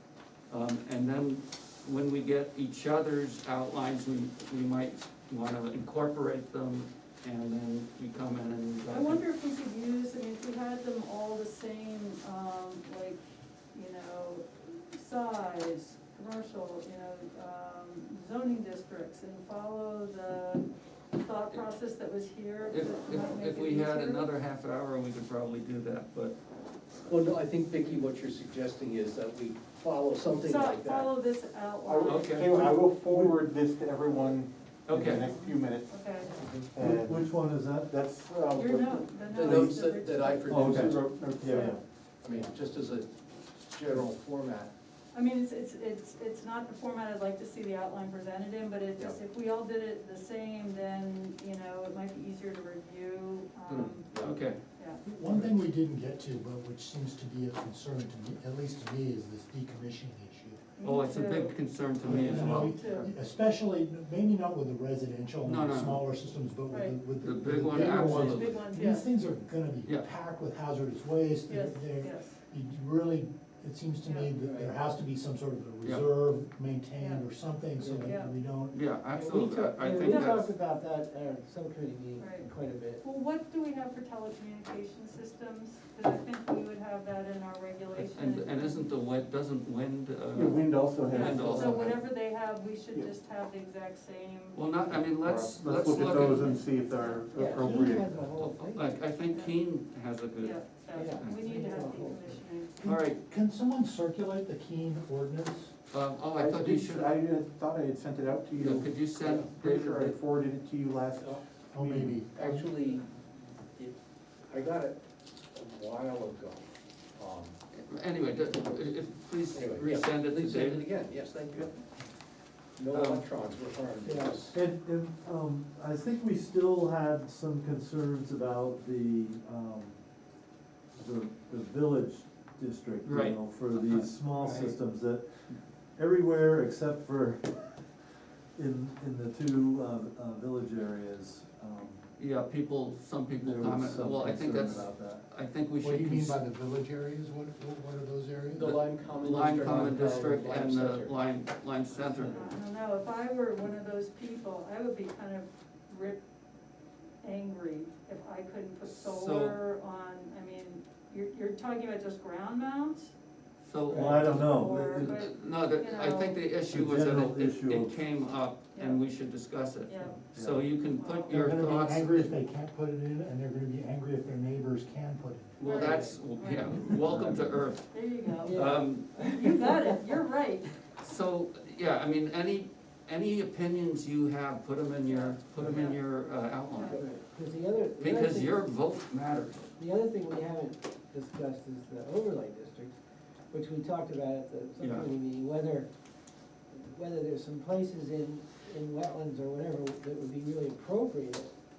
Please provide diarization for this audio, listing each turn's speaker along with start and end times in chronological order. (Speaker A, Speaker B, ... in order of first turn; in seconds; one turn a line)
Speaker A: 0.5-9.2
Speaker B: 8.9-13.2
Speaker B: 13.7-24.3
Speaker A: 22.7-26.4
Speaker C: 27.0-31.1
Speaker B: 30.4-32.3
Speaker D: 31.8-36.0
Speaker A: 32.0-32.6
Speaker E: 32.5-33.4
Speaker A: 34.9-35.3
Speaker B: 35.2-36.3
Speaker D: 36.5-37.3
Speaker E: 36.8-37.9
Speaker D: 37.9-39.3
Speaker B: 38.5-41.8
Speaker C: 39.3-41.0
Speaker E: 40.5-41.8
Speaker D: 40.7-41.8
Speaker C: 42.2-44.7
Speaker B: 45.1-54.1
Speaker C: 53.7-54.5
Speaker A: 54.1-54.6
Speaker B: 54.8-55.0
Speaker F: 55.0-60.7
Speaker B: 60.8-61.6
Speaker A: 60.8-63.1
Speaker F: 62.0-78.9
Speaker B: 62.6-63.1
Speaker A: 65.4-66.0
Speaker B: 66.7-67.0
Speaker A: 67.1-68.7
Speaker B: 67.7-69.1
Speaker B: 71.5-72.4
Speaker B: 74.0-74.3
Speaker G: 74.4-74.7
Speaker B: 77.0-77.3
Speaker G: 77.8-78.1
Speaker B: 78.0-78.3
Speaker A: 78.7-80.5
Speaker G: 79.1-83.0
Speaker B: 80.0-80.4
Speaker B: 82.2-82.5
Speaker B: 83.0-88.9
Speaker A: 87.9-91.9
Speaker D: 90.3-92.0
Speaker B: 91.0-94.7
Speaker A: 94.5-96.7
Speaker D: 94.9-98.3
Speaker B: 96.9-97.2
Speaker G: 97.3-99.0
Speaker A: 98.4-100.6
Speaker B: 99.3-99.6
Speaker B: 100.4-102.9
Speaker G: 100.9-102.4
Speaker F: 102.8-105.7
Speaker A: 102.8-103.2
Speaker A: 105.9-107.1
Speaker D: 106.4-112.2
Speaker A: 108.6-110.2
Speaker C: 111.2-111.4
Speaker F: 111.7-112.7
Speaker C: 112.2-113.1
Speaker C: 114.5-115.0
Speaker C: 115.5-117.6
Speaker A: 117.7-120.9
Speaker C: 119.5-121.8
Speaker C: 122.8-124.6
Speaker A: 122.9-123.2
Speaker G: 124.0-124.5
Speaker E: 124.5-130.0
Speaker E: 130.9-135.2
Speaker A: 133.1-134.8
Speaker E: 136.0-137.8
Speaker E: 138.6-142.0
Speaker A: 142.2-146.4
Speaker E: 143.4-145.2
Speaker F: 145.8-148.7
Speaker C: 148.5-151.2
Speaker A: 148.6-152.5
Speaker B: 152.2-156.2
Speaker B: 157.2-163.1
Speaker A: 158.9-159.6
Speaker A: 163.6-172.3
Speaker E: 163.9-165.3
Speaker B: 164.2-166.6
Speaker E: 166.7-168.0
Speaker B: 168.8-169.1
Speaker B: 169.9-170.3
Speaker E: 170.1-170.7
Speaker B: 170.9-171.4
Speaker F: 171.3-176.0
Speaker A: 175.6-177.9
Speaker B: 175.6-177.0
Speaker G: 175.8-176.1
Speaker E: 176.9-177.7
Speaker B: 177.9-180.8
Speaker G: 178.4-180.0
Speaker A: 178.5-179.1
Speaker A: 181.0-187.0
Speaker G: 185.1-186.0
Speaker B: 186.7-187.0
Speaker G: 186.9-188.6
Speaker A: 188.0-189.7
Speaker G: 189.8-192.9
Speaker G: 193.5-195.9
Speaker A: 194.8-195.1
Speaker G: 196.7-201.5